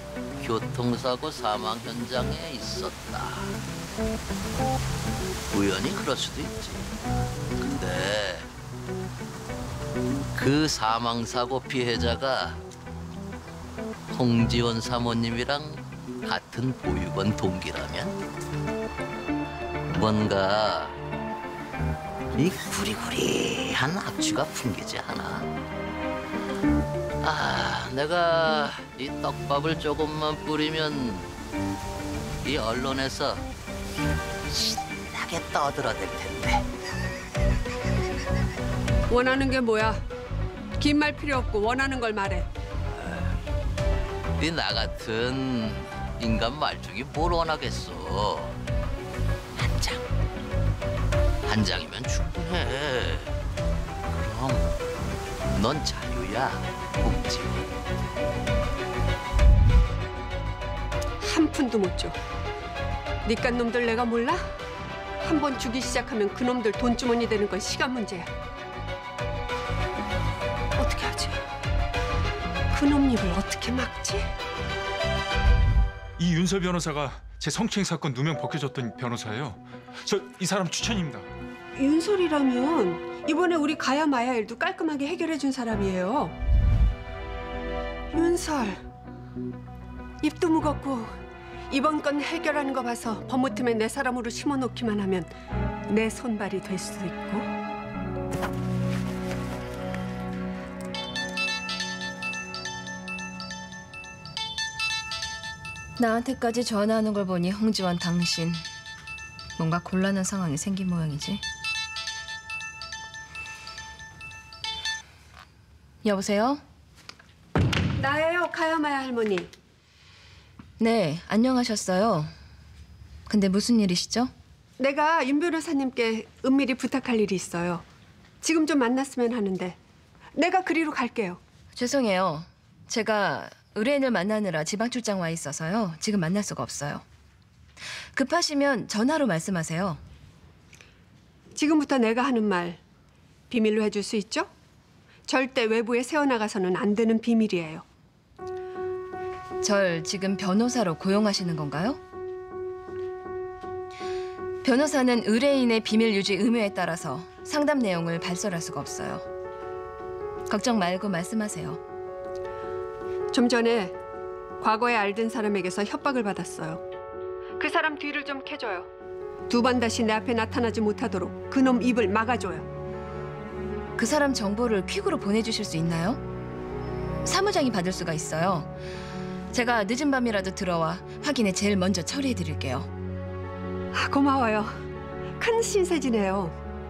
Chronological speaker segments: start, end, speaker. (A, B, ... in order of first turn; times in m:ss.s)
0:00.4-0:03.6 A
0:05.5-0:06.9 A
0:07.6-0:08.5 A
0:10.3-0:12.6 A
0:14.1-0:18.2 A
0:19.9-0:21.0 A
0:22.3-0:25.5 A
0:27.2-0:31.3 A
0:32.4-0:33.4 A
0:34.5-0:36.7 A
0:39.1-0:40.0 B
0:40.8-0:42.5 B
0:43.0-0:43.3 A
0:44.4-0:48.6 A
0:49.5-0:50.0 A
0:51.4-0:53.3 A
0:54.1-0:54.7 A
0:55.5-0:57.6 A
1:01.2-1:02.2 B
1:03.2-1:04.4 B
1:05.2-1:08.3 B
1:10.8-1:11.4 B
1:12.7-1:14.3 B
1:16.2-1:21.3 C
1:21.7-1:26.4 B
1:28.1-1:28.8 B
1:30.2-1:31.1 B
1:31.7-1:35.3 B
1:35.9-1:37.5 B
1:46.0-1:48.6 D
1:49.6-1:51.4 D
1:56.0-1:56.6 D
1:58.0-1:59.5 B
2:00.8-2:02.3 D
2:03.3-2:04.3 D
2:04.8-2:07.8 B
2:08.4-2:09.8 B
2:10.3-2:11.4 B
2:11.7-2:17.0 D
2:18.1-2:20.0 D
2:21.5-2:22.8 B
2:23.5-2:24.5 B
2:25.3-2:27.8 B
2:29.6-2:32.0 D
2:34.6-2:39.2 D
2:40.5-2:41.8 D
2:43.3-2:43.9 B
2:44.6-2:46.8 B
2:47.6-2:48.9 B
2:49.5-2:52.6 B
2:54.0-2:56.2 D
2:57.2-2:58.7 D
2:59.5-3:02.9 D
3:03.9-3:04.7 B
3:05.4-3:06.5 B